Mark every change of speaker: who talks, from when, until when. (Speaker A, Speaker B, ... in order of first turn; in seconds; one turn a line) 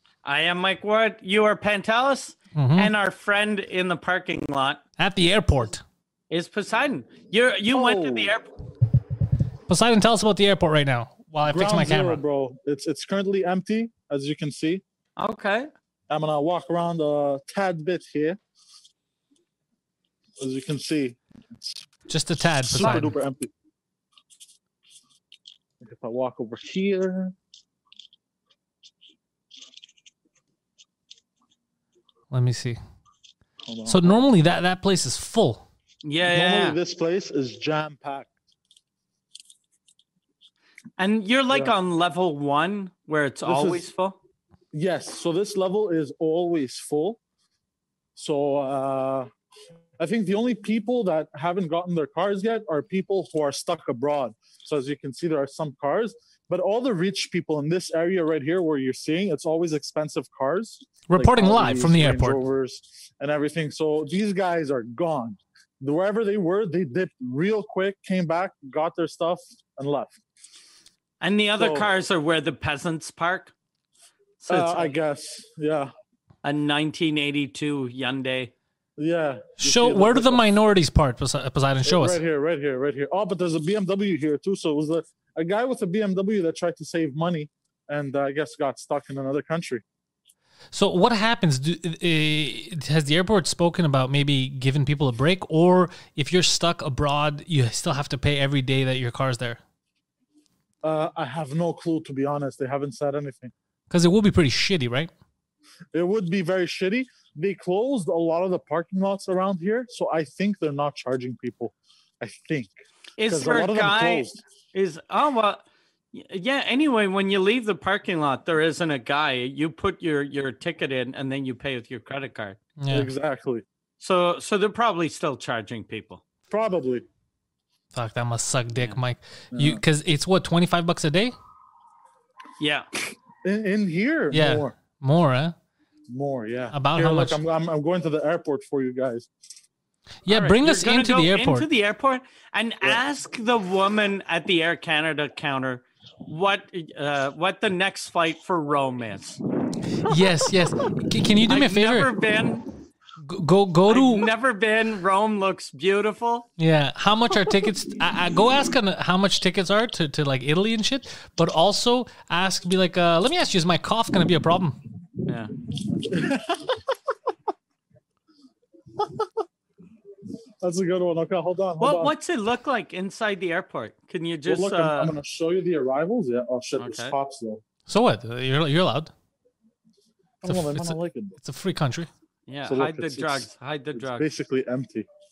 Speaker A: 0.2-4.8
Speaker B: 2.5-2.9
Speaker B: 5.0-5.8
Speaker A: 6.3-8.5
Speaker C: 7.7-8.3
Speaker B: 9.7-12.2
Speaker C: 11.5-14.8
Speaker A: 15.2-15.7
Speaker C: 16.1-18.4
Speaker C: 20.4-21.8
Speaker B: 22.1-23.1
Speaker C: 22.6-23.5
Speaker C: 25.8-27.4
Speaker B: 32.3-32.8
Speaker C: 33.6-34.3
Speaker B: 33.9-35.6
Speaker A: 36.0-36.8
Speaker C: 36.3-38.3
Speaker A: 41.0-44.2
Speaker C: 43.5-43.9
Speaker C: 44.7-47.2
Speaker C: 48.2-49.3
Speaker C: 50.0-70.2
Speaker B: 61.1-62.4
Speaker A: 71.2-73.5
Speaker C: 71.6-71.9
Speaker A: 74.4-75.0
Speaker C: 74.5-75.9
Speaker A: 76.4-78.5
Speaker C: 79.0-80.4
Speaker B: 79.6-82.2
Speaker C: 81.8-89.8
Speaker B: 90.7-99.6
Speaker C: 100.8-103.5
Speaker B: 103.9-105.1
Speaker C: 105.9-114.4
Speaker A: 113.2-122.6
Speaker B: 122.8-123.1
Speaker C: 122.9-123.6
Speaker A: 124.0-126.2
Speaker C: 126.5-127.0
Speaker B: 127.9-131.3
Speaker C: 129.5-129.8
Speaker A: 132.6-132.9
Speaker C: 133.4-134.7
Speaker B: 134.3-135.5
Speaker C: 136.1-139.3
Speaker B: 136.7-137.4
Speaker B: 140.2-141.7
Speaker A: 140.3-149.4
Speaker B: 150.0-152.1
Speaker A: 151.5-152.7
Speaker B: 153.2-154.3
Speaker A: 153.9-156.5
Speaker B: 156.6-164.8
Speaker A: 165.2-165.5
Speaker C: 165.9-166.8
Speaker C: 170.6-172.1
Speaker A: 171.8-175.2
Speaker C: 174.4-177.6
Speaker A: 176.8-177.2
Speaker B: 177.9-179.1
Speaker C: 180.4-181.3
Speaker B: 180.4-182.1
Speaker A: 182.5-184.3
Speaker C: 182.6-185.1